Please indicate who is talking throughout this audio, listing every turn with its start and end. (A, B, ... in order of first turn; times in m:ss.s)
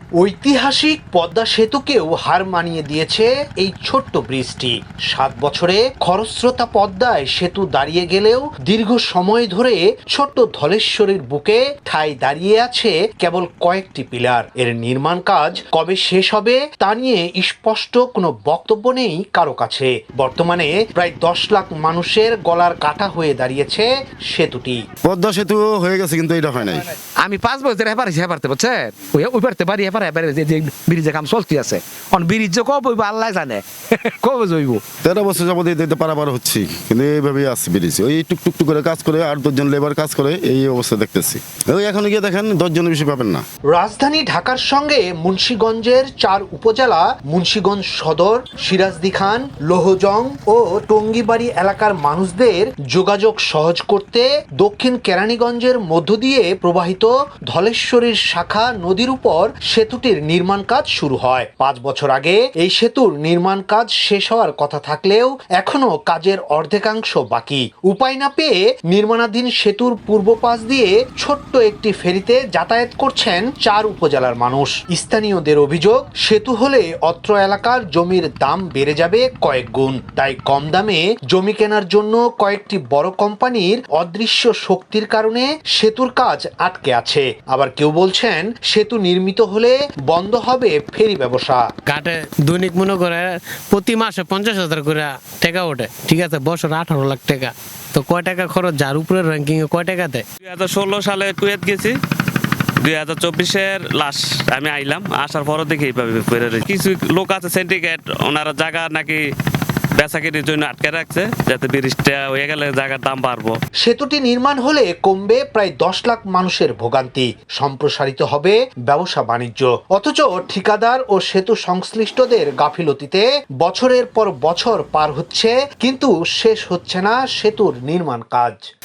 0:00.2-0:24.8 A
0:25.0-0:26.8 B
0:27.2-0:34.8 C
0:35.0-0:43.4 B
0:43.7-1:31.6 A
1:31.9-1:40.2 D
1:40.4-1:41.9 E
1:42.8-1:49.2 E
1:50.0-1:53.6 E
1:53.8-2:08.7 A